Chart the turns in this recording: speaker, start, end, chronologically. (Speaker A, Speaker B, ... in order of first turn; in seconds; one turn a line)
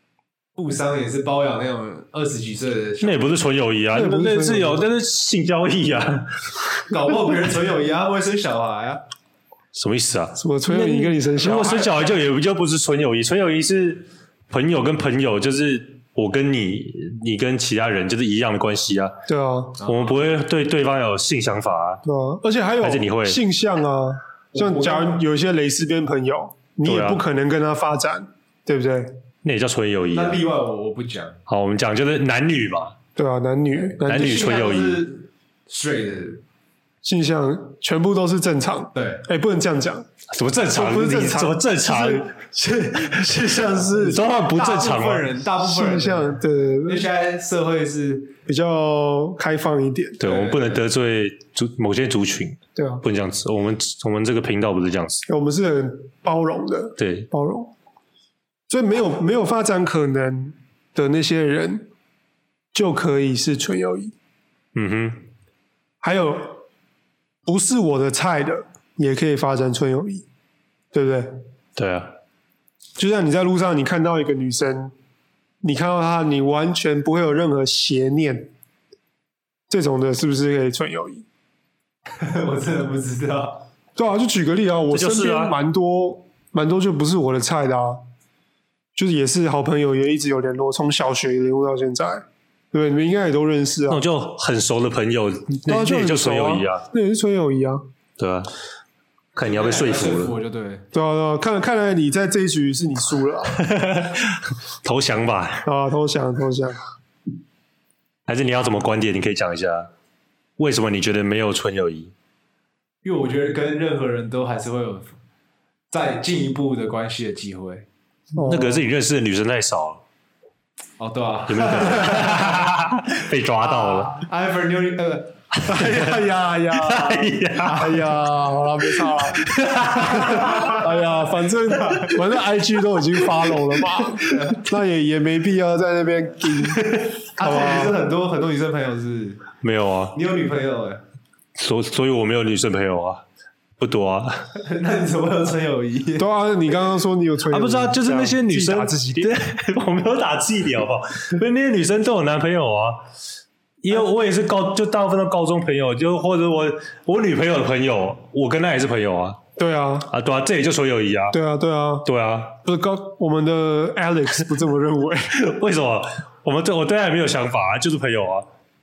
Speaker A: 0.6-3.3
Speaker B: 3.0-6.7
Speaker C: 3.9-4.8
Speaker A: 6.9-9.0
Speaker B: 9.7-19.2
Speaker C: 10.4-11.9
Speaker C: 19.3-19.8
Speaker A: 19.8-20.3
Speaker B: 19.8-22.0
Speaker C: 22.0-29.2
Speaker B: 22.8-23.4
Speaker A: 24.5-25.2
Speaker B: 26.8-27.2
Speaker B: 29.4-30.4
Speaker A: 30.1-31.4
Speaker B: 31.5-33.0
Speaker C: 33.2-34.4
Speaker B: 34.0-35.0
Speaker A: 34.0-36.4
Speaker C: 37.0-40.1
Speaker A: 38.9-39.2
Speaker B: 40.3-42.4
Speaker C: 40.7-42.3
Speaker A: 42.6-48.3
Speaker C: 43.5-44.2
Speaker B: 44.0-45.3
Speaker C: 45.6-47.0
Speaker C: 48.5-50.2
Speaker A: 50.2-50.8
Speaker B: 50.2-55.2
Speaker C: 52.8-53.0
Speaker C: 55.3-57.7
Speaker B: 57.0-57.3
Speaker C: 58.7-61.9
Speaker C: 62.7-64.1
Speaker B: 64.8-65.3
Speaker C: 66.0-66.6
Speaker C: 67.5-70.2
Speaker C: 70.9-71.3
Speaker B: 71.8-72.1
Speaker C: 73.0-74.9
Speaker C: 75.6-78.5
Speaker C: 79.7-81.2
Speaker A: 82.2-83.7
Speaker C: 84.0-88.0
Speaker B: 84.9-85.5
Speaker C: 89.0-94.0
Speaker B: 93.9-96.8
Speaker C: 95.7-97.9
Speaker B: 98.2-98.5
Speaker B: 99.3-100.3
Speaker A: 99.4-100.8
Speaker C: 100.9-103.6
Speaker B: 103.5-105.7
Speaker C: 105.6-106.8
Speaker B: 108.3-109.9
Speaker B: 110.6-112.1
Speaker A: 113.0-115.2
Speaker A: 115.9-117.9
Speaker C: 118.3-118.9
Speaker B: 118.4-120.0
Speaker A: 121.0-122.7
Speaker B: 121.5-124.3
Speaker A: 123.6-125.4
Speaker B: 125.6-128.2
Speaker C: 125.7-136.8
Speaker B: 128.9-130.7
Speaker A: 130.1-131.0
Speaker A: 131.7-132.2
Speaker B: 133.3-134.3
Speaker A: 134.3-134.6
Speaker B: 136.7-137.0
Speaker A: 137.4-139.4
Speaker C: 137.4-138.0
Speaker B: 139.6-140.2
Speaker A: 140.1-141.0
Speaker B: 141.6-143.2
Speaker B: 143.8-144.5
Speaker A: 144.6-146.3
Speaker C: 146.2-149.3
Speaker B: 147.5-153.0
Speaker B: 153.8-159.4
Speaker C: 159.6-160.1
Speaker B: 160.1-161.4
Speaker C: 161.3-162.1
Speaker B: 162.1-162.6
Speaker C: 162.7-165.4
Speaker B: 165.4-168.5